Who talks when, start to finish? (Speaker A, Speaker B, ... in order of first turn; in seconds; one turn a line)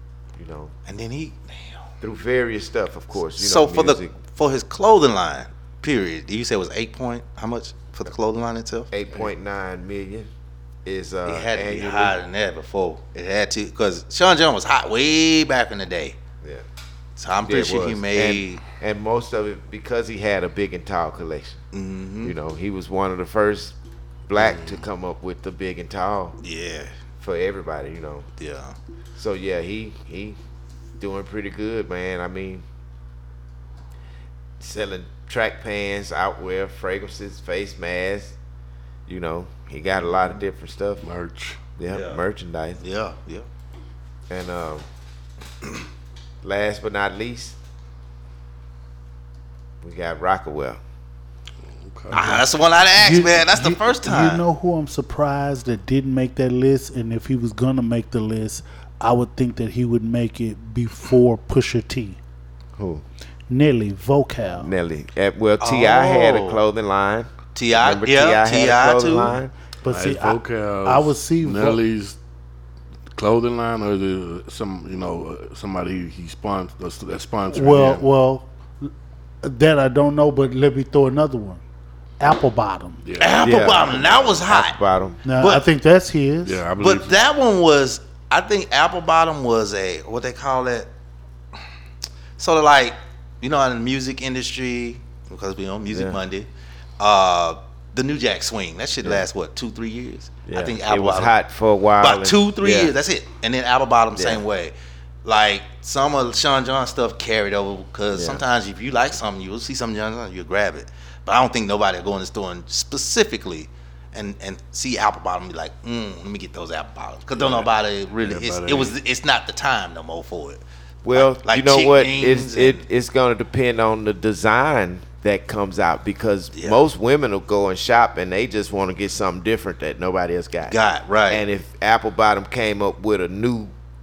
Speaker A: 0.3-0.7
Speaker B: 0.9-1.9
Speaker A: 2.0-4.2
Speaker B: 3.3-8.9
Speaker A: 8.9-10.3
Speaker A: 10.8-12.2
Speaker B: 11.2-16.2
Speaker B: 17.2-18.6
Speaker A: 17.4-21.6
Speaker B: 21.7-22.4
Speaker A: 22.2-23.8
Speaker A: 24.3-26.4
Speaker C: 24.4-24.9
Speaker B: 26.4-26.9
Speaker A: 27.2-28.3
Speaker B: 28.4-28.8
Speaker A: 29.2-30.4
Speaker A: 31.0-32.6
Speaker A: 34.6-38.4
Speaker A: 39.0-41.0
Speaker C: 41.0-41.6
Speaker A: 41.8-42.8
Speaker B: 41.9-42.2
Speaker B: 42.8-43.5
Speaker A: 44.3-44.9
Speaker A: 46.4-47.6
Speaker A: 49.8-50.8
Speaker C: 51.7-52.3
Speaker B: 52.1-54.4
Speaker D: 52.1-52.4
Speaker D: 52.9-62.2
Speaker A: 62.8-63.0
Speaker D: 63.5-64.7
Speaker A: 64.5-69.5
Speaker B: 65.6-66.6
Speaker B: 67.5-69.4
Speaker D: 69.8-71.8
Speaker C: 69.9-72.2
Speaker C: 73.1-78.1
Speaker D: 77.5-78.9
Speaker D: 79.4-81.6
Speaker D: 82.2-83.0
Speaker C: 83.0-83.4
Speaker B: 83.2-84.8
Speaker A: 83.4-85.2
Speaker D: 85.2-86.6
Speaker B: 85.3-85.7
Speaker C: 86.4-87.2
Speaker B: 86.8-90.9
Speaker B: 92.4-96.5
Speaker A: 95.9-96.2
Speaker B: 97.0-101.4
Speaker A: 100.5-103.0
Speaker B: 102.0-122.8
Speaker A: 104.1-104.4
Speaker A: 108.1-108.4
Speaker C: 117.4-117.7
Speaker C: 118.2-119.0
Speaker A: 121.0-130.8
Speaker B: 126.5-126.9
Speaker B: 130.7-131.4
Speaker A: 131.3-133.7